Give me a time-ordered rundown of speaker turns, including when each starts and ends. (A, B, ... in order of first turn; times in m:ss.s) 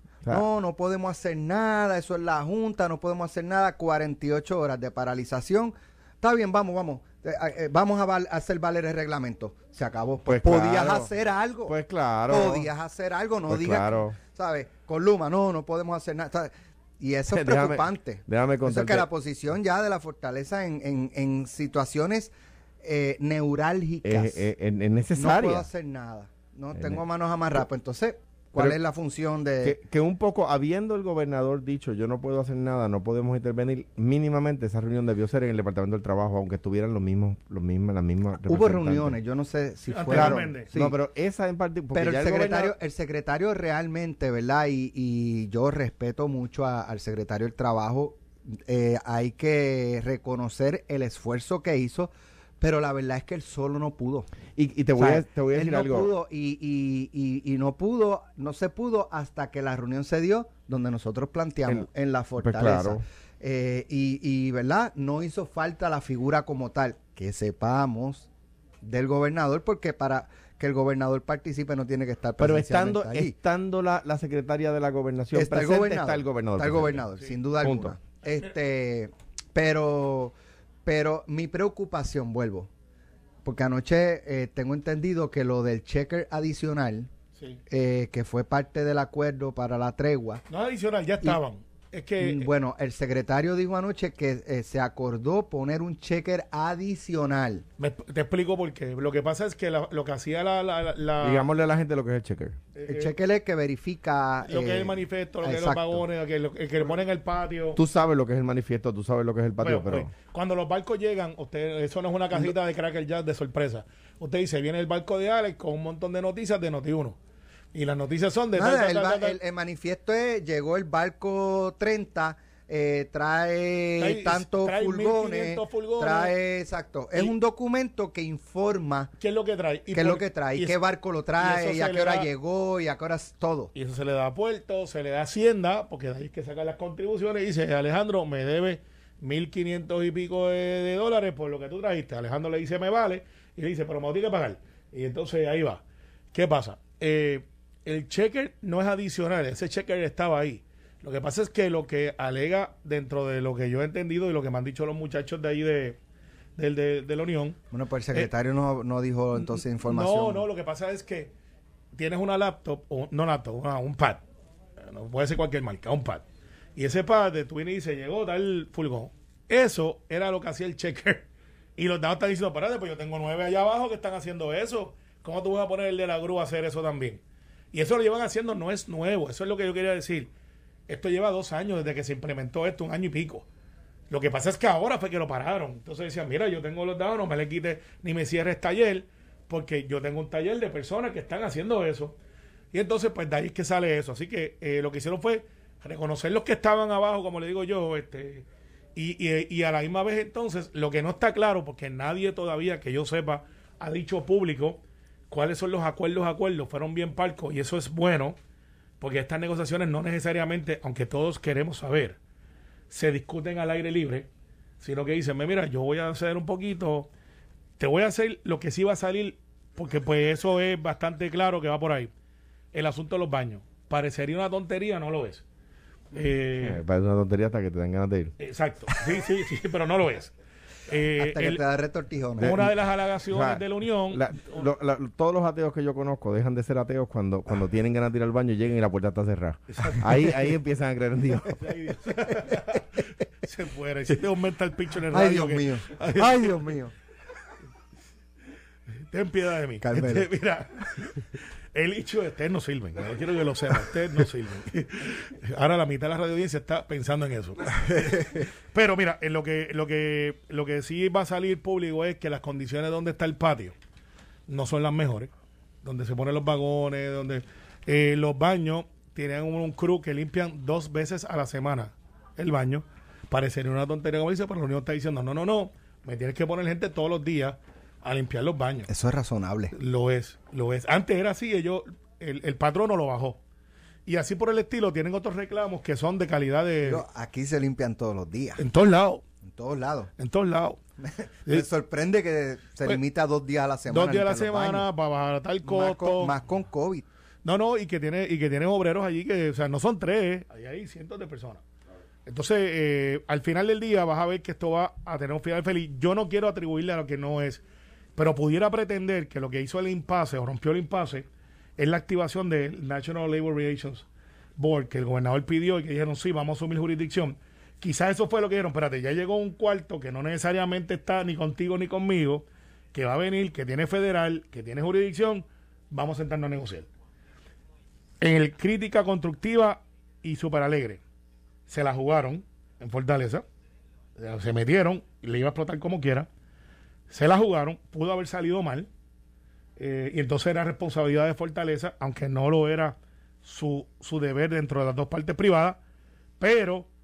0:00.3-0:11.8 A
0:10.3-0:11.1 B
0:11.7-0:12.7 B
0:12.3-0:24.5 A
0:13.5-0:14.2 B
0:17.3-0:19.1 B
0:24.0-0:25.7 B
0:25.2-0:29.8 A
0:26.7-0:27.0 B
0:29.6-0:39.2 B
0:38.5-0:41.0 A
0:39.9-0:40.7 C
0:40.1-0:42.7 B
0:41.9-0:54.3 A
0:54.6-0:56.1 B
0:55.0-1:08.3 A
1:02.4-1:03.0 B
1:08.8-1:13.4 A
1:12.4-1:17.1 B
1:15.3-1:22.7 A
1:17.6-1:18.0 B
1:23.4-1:27.1 A
1:27.7-1:30.4 A
1:30.5-1:32.5 C
1:32.2-1:37.6 A
1:37.8-1:41.5 C
1:41.2-1:42.6 B
1:42.8-1:43.1 C
1:42.9-1:46.0 A
1:44.4-1:47.8 C
1:47.8-1:50.1 B
1:49.6-1:57.2 C
1:57.7-1:59.4 C
1:58.6-2:09.1 A
2:04.0-2:06.4 C
2:09.2-2:10.8 C
2:09.9-2:13.7 A
2:11.4-2:12.3 C
2:13.8-2:25.8 C
2:26.3-2:36.0 C
2:36.6-2:37.6 C
2:37.7-2:40.4 A
2:39.4-2:41.3 C
2:41.9-2:44.2 C
2:44.8-2:46.2 C
2:46.8-2:51.3 C
2:51.8-2:57.2 C
2:57.7-3:00.3 C
3:00.9-3:03.5 C
3:04.1-3:12.2 C
3:12.7-3:28.4 C
3:29.0-3:32.2 C
3:32.9-3:34.3 C
3:34.8-3:37.1 C
3:37.8-3:42.1 C
3:42.7-3:45.4 C
3:46.1-3:46.8 C
3:46.6-3:48.3 B
3:48.4-3:50.3 C
3:50.9-3:51.6 C
3:51.2-3:52.6 A
3:52.4-4:01.6 B
3:52.4-3:54.4 C
3:59.8-4:00.0 C
4:01.6-4:06.8 C
4:02.3-4:02.5 A
4:05.1-4:06.9 A
4:09.1-4:23.8 C
4:09.8-4:10.3 A
4:17.9-4:18.4 A
4:24.5-4:25.3 C
4:25.8-4:38.9 C
4:38.9-4:39.8 A
4:39.7-4:43.4 C
4:44.1-4:47.0 C
4:46.8-4:48.6 A
4:48.6-4:49.2 C
4:49.4-4:50.1 A
4:50.2-4:50.8 C
4:51.2-4:54.9 A
4:53.9-4:56.4 C
4:55.6-4:57.1 A
4:57.4-5:01.6 C
5:02.3-5:07.6 C
5:08.2-5:11.3 C
5:11.8-5:14.1 C
5:14.6-5:26.9 C
5:28.2-5:31.0 C
5:31.7-5:33.4 C
5:34.2-5:36.3 C
5:37.1-5:38.9 C
5:39.8-5:45.8 C
5:46.4-5:46.9 C